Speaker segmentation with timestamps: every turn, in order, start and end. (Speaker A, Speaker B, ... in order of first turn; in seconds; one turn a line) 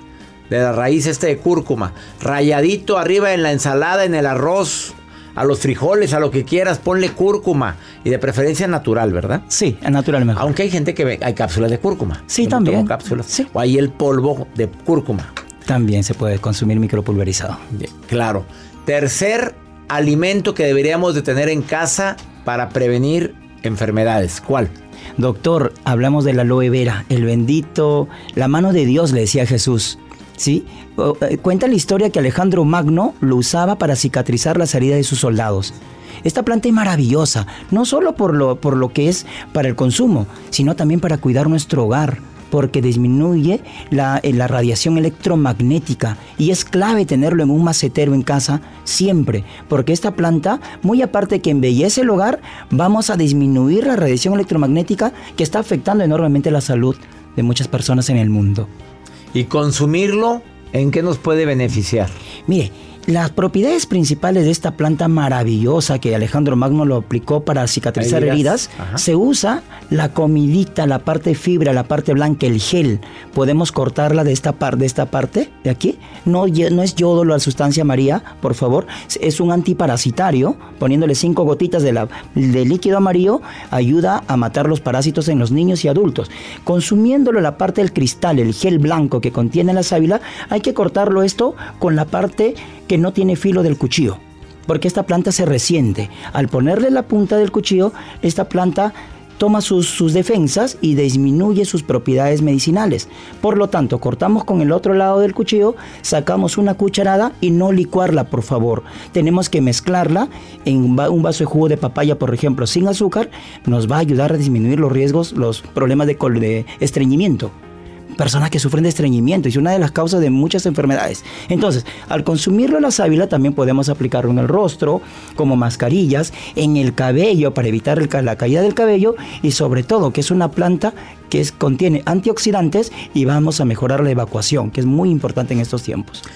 Speaker A: 0.5-9.4
Speaker B: 9.5-10.5
Speaker A: 10.4-15.3
Speaker B: 12.3-13.5
Speaker B: 15.7-17.6
Speaker A: 17.7-24.7
Speaker B: 25.2-58.7
Speaker A: 59.3-62.1
Speaker B: 62.5-117.5
Speaker A: 68.0-69.0
Speaker B: 118.2-136.2